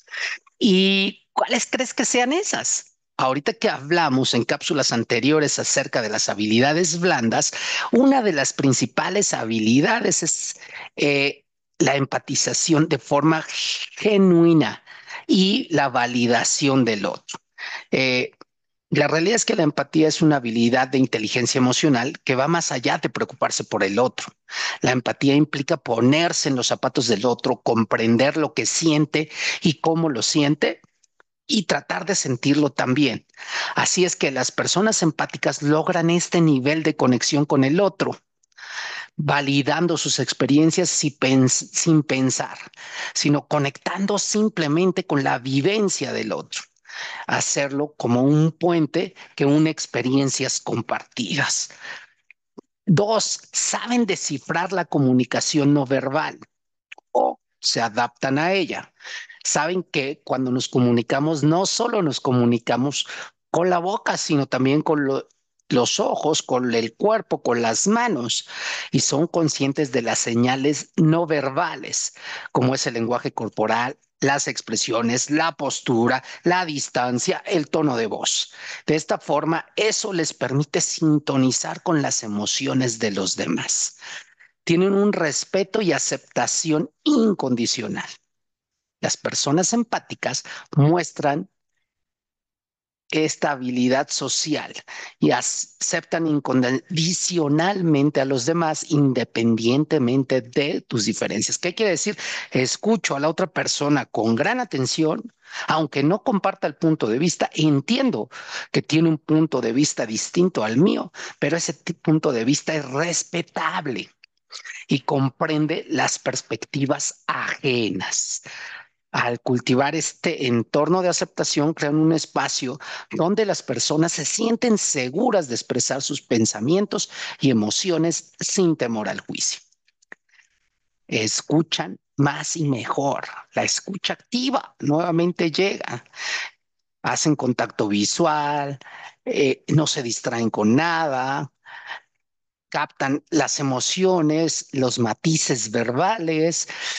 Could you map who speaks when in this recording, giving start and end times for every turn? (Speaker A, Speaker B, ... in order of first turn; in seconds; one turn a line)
Speaker A: 0.6-17.4
Speaker A: 17.9-18.3
Speaker A: 18.9-24.3
Speaker A: 24.8-30.8
Speaker A: 31.5-38.2
Speaker A: 39.2-46.6
Speaker A: 47.3-51.7
Speaker A: 52.9-56.4
Speaker A: 57.1-58.9
Speaker A: 59.4-84.0
Speaker A: 84.6-88.2
Speaker A: 89.0-91.5
Speaker A: 93.1-114.1
Speaker A: 114.9-118.4
Speaker A: 119.1-129.6
Speaker A: 131.1-136.0
Speaker A: 137.0-141.5
Speaker A: 142.7-146.7